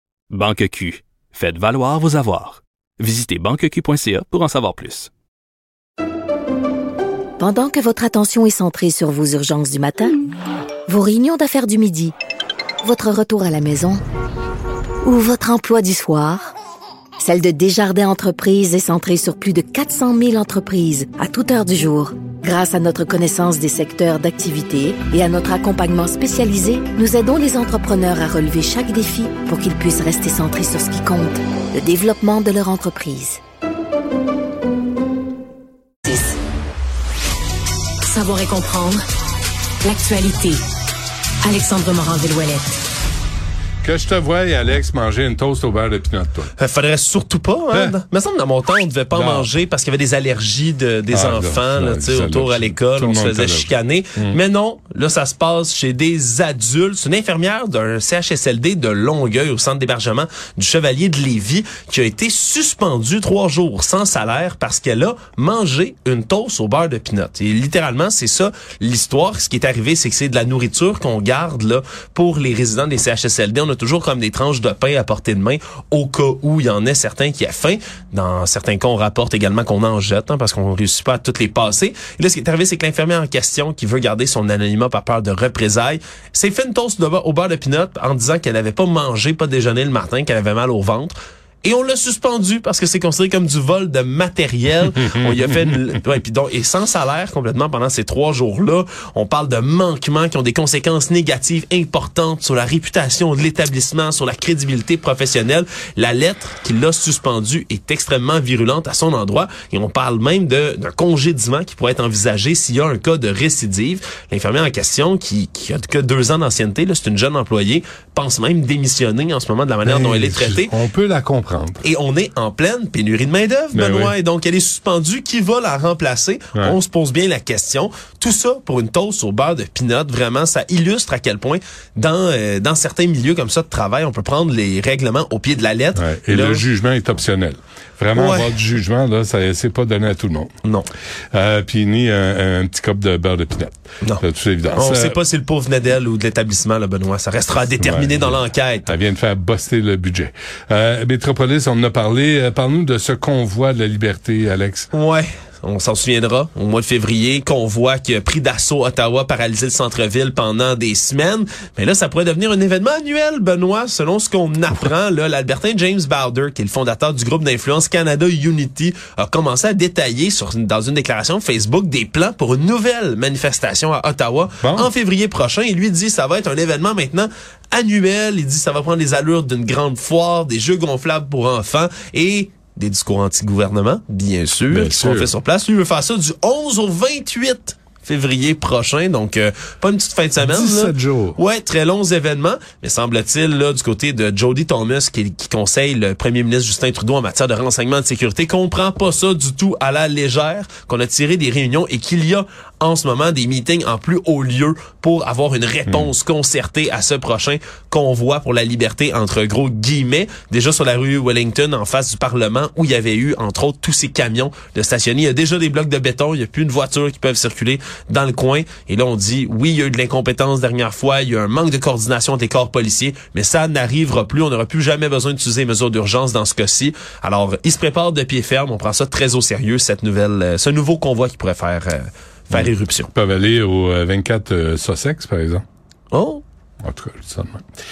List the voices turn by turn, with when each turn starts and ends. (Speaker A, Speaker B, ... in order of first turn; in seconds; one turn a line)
Speaker A: 0.3-5.1
Speaker B: 7.4-10.1
Speaker B: 10.9-12.1
Speaker B: 12.8-14.0
Speaker B: 15.0-16.5
Speaker B: 17.2-33.4
Speaker C: 38.0-39.0
Speaker C: 39.8-40.6
Speaker C: 41.4-42.8
Speaker D: 43.8-46.5
Speaker E: 46.6-120.8
Speaker D: 49.1-49.5
Speaker D: 51.1-54.4
Speaker D: 119.8-121.8
Speaker E: 121.8-136.7
Speaker D: 123.7-124.1
Speaker D: 135.9-140.5
Speaker E: 138.1-138.5
Speaker D: 141.3-145.1
Speaker E: 144.0-148.9
Speaker D: 147.8-154.9
Speaker E: 154.9-233.1
Speaker D: 174.6-174.9
Speaker D: 184.7-185.3
Speaker D: 190.4-191.4
Speaker D: 232.5-235.6
Speaker E: 236.1-236.4
Speaker D: 236.8-237.6